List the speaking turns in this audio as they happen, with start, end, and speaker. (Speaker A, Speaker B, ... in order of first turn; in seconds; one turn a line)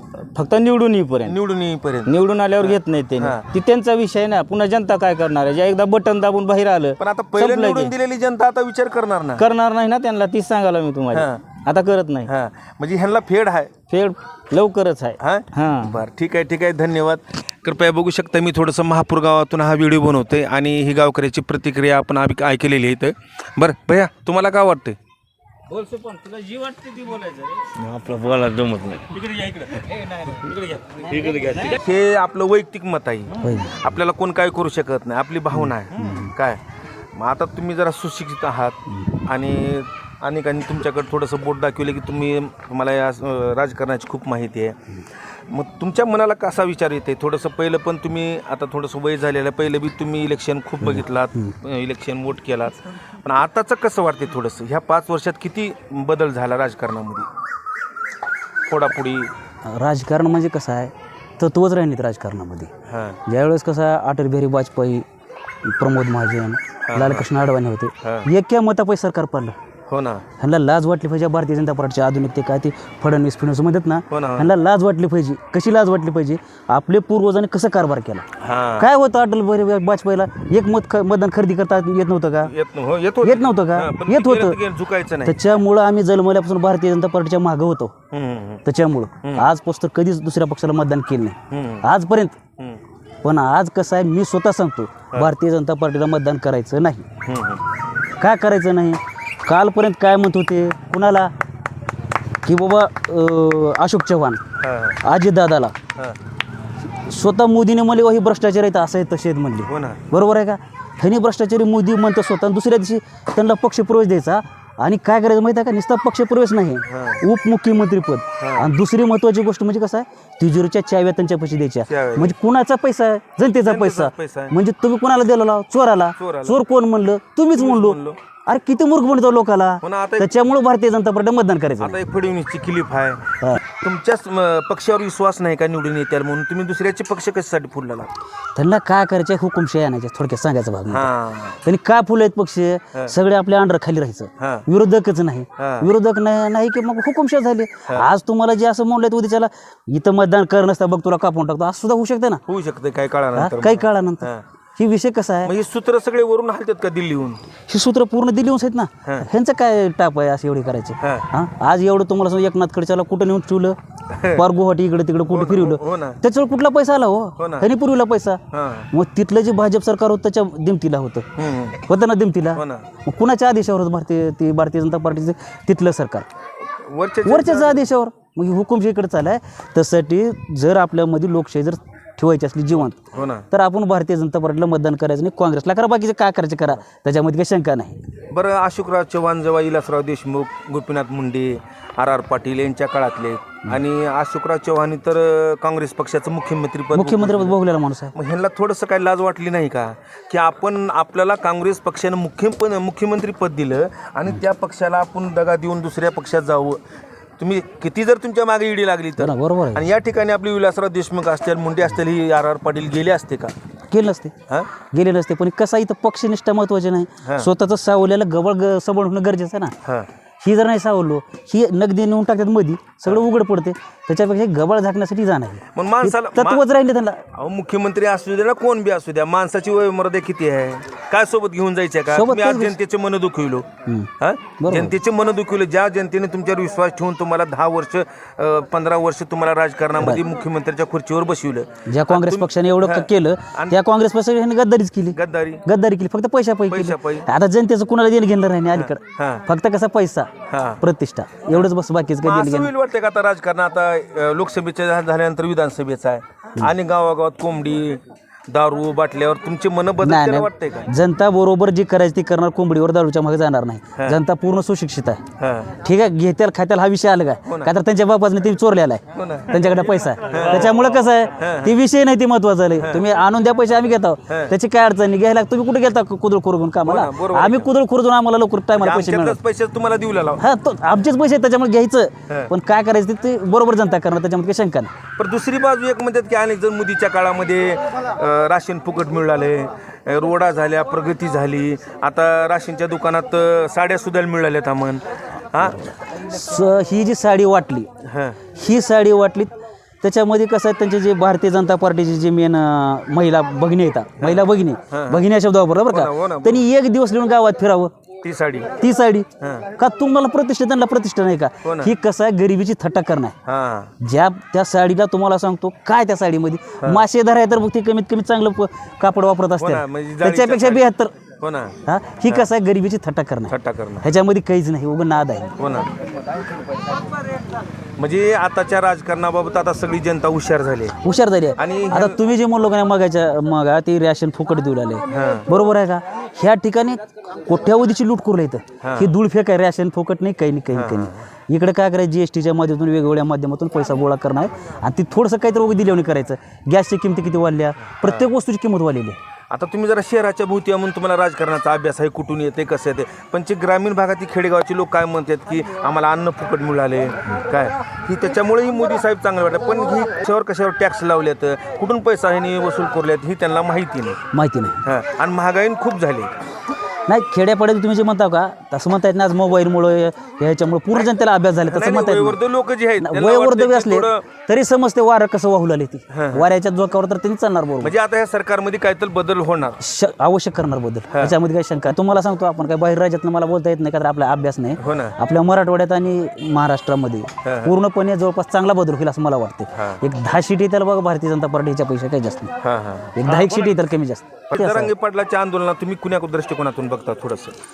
Speaker A: 0.3-1.4
Speaker B: 1.2-3.5
Speaker A: 2.1-7.9
Speaker B: 7.0-9.4
Speaker A: 9.4-12.3
Speaker B: 11.1-11.5
Speaker B: 12.2-13.7
Speaker A: 13.9-16.0
Speaker B: 15.2-25.0
Speaker A: 25.7-31.8
Speaker B: 31.6-36.6
Speaker C: 33.4-33.9
Speaker A: 36.0-36.3
Speaker B: 37.1-44.8
Speaker B: 45.4-57.3
Speaker C: 50.9-51.5
Speaker B: 58.7-59.3
Speaker C: 59.7-62.7
Speaker B: 62.9-63.2
Speaker C: 63.2-65.0
Speaker C: 65.7-69.6
Speaker B: 66.8-67.2
Speaker B: 68.0-68.3
Speaker B: 69.9-70.2
Speaker C: 70.4-78.2
Speaker B: 74.1-74.5
Speaker B: 78.4-78.9
Speaker C: 78.8-82.5
Speaker B: 82.4-85.4
Speaker C: 83.2-84.6
Speaker C: 85.2-87.9
Speaker B: 88.1-88.7
Speaker C: 88.7-92.3
Speaker B: 91.5-91.8
Speaker C: 93.2-97.0
Speaker B: 97.2-97.6
Speaker C: 98.2-101.3
Speaker C: 102.5-104.4
Speaker B: 104.6-105.0
Speaker C: 105.0-105.8
Speaker C: 107.0-132.0
Speaker B: 109.7-110.0
Speaker B: 116.9-117.2
Speaker B: 118.4-118.7
Speaker B: 121.9-122.3
Speaker B: 123.5-124.5
Speaker B: 126.2-126.6
Speaker B: 127.5-128.2
Speaker B: 129.8-130.3
Speaker B: 131.8-138.1
Speaker C: 138.6-141.1
Speaker B: 140.9-141.6
Speaker C: 141.6-152.4
Speaker B: 144.4-144.6
Speaker B: 145.6-145.9
Speaker B: 152.5-154.4
Speaker C: 153.3-155.5
Speaker B: 155.4-157.4
Speaker C: 157.7-163.8
Speaker B: 161.0-161.3
Speaker B: 164.1-164.4
Speaker C: 164.3-168.4
Speaker B: 165.3-166.2
Speaker B: 167.4-167.7
Speaker B: 168.5-168.9
Speaker C: 168.9-171.3
Speaker B: 171.4-171.8
Speaker C: 171.9-176.3
Speaker B: 172.6-172.8
Speaker B: 176.7-177.9
Speaker C: 177.2-188.0
Speaker B: 182.8-183.5
Speaker B: 188.3-197.6
Speaker C: 196.9-198.1
Speaker B: 198.1-206.8
Speaker B: 207.4-213.5
Speaker C: 209.2-209.9
Speaker C: 213.9-214.3
Speaker C: 214.9-219.7
Speaker B: 217.2-217.5
Speaker C: 220.4-227.2
Speaker B: 225.7-226.6
Speaker B: 227.3-233.7
Speaker C: 232.1-232.8
Speaker C: 233.9-234.9
Speaker B: 234.2-243.8
Speaker C: 240.0-240.2
Speaker C: 241.9-252.7
Speaker B: 245.1-245.7
Speaker B: 246.7-247.3
Speaker B: 248.7-249.5
Speaker B: 250.5-250.8
Speaker B: 252.2-260.9
Speaker C: 260.0-265.2
Speaker B: 265.4-265.8
Speaker C: 265.8-279.4
Speaker B: 269.1-269.6
Speaker B: 270.3-271.8
Speaker B: 272.8-273.0
Speaker B: 274.3-274.5
Speaker B: 276.9-277.7
Speaker B: 278.8-280.5
Speaker C: 280.4-284.9
Speaker B: 285.2-295.9
Speaker C: 295.7-297.9
Speaker B: 298.0-298.4
Speaker C: 298.5-307.9
Speaker B: 304.2-305.2
Speaker B: 305.9-306.6
Speaker B: 308.2-308.7
Speaker C: 308.8-313.4
Speaker B: 309.4-309.7
Speaker B: 311.6-311.9
Speaker B: 313.5-313.9
Speaker C: 314.0-321.1
Speaker B: 319.6-320.9
Speaker B: 321.4-322.5
Speaker C: 321.9-325.5
Speaker B: 323.5-324.1
Speaker B: 325.6-325.9
Speaker B: 328.0-331.0
Speaker C: 331.0-349.2
Speaker B: 331.6-332.2
Speaker B: 335.1-335.5
Speaker B: 338.8-339.1
Speaker B: 340.7-341.2
Speaker B: 348.0-348.3
Speaker B: 349.5-364.2
Speaker C: 364.3-364.8
Speaker B: 364.8-366.4
Speaker C: 367.1-372.4
Speaker B: 371.7-374.2
Speaker C: 373.0-377.9
Speaker B: 376.1-376.5
Speaker B: 377.8-379.8
Speaker C: 379.8-392.5
Speaker B: 384.8-385.2
Speaker B: 387.4-387.7
Speaker B: 389.7-390.0
Speaker B: 392.6-393.8
Speaker C: 393.1-394.9
Speaker B: 394.5-397.5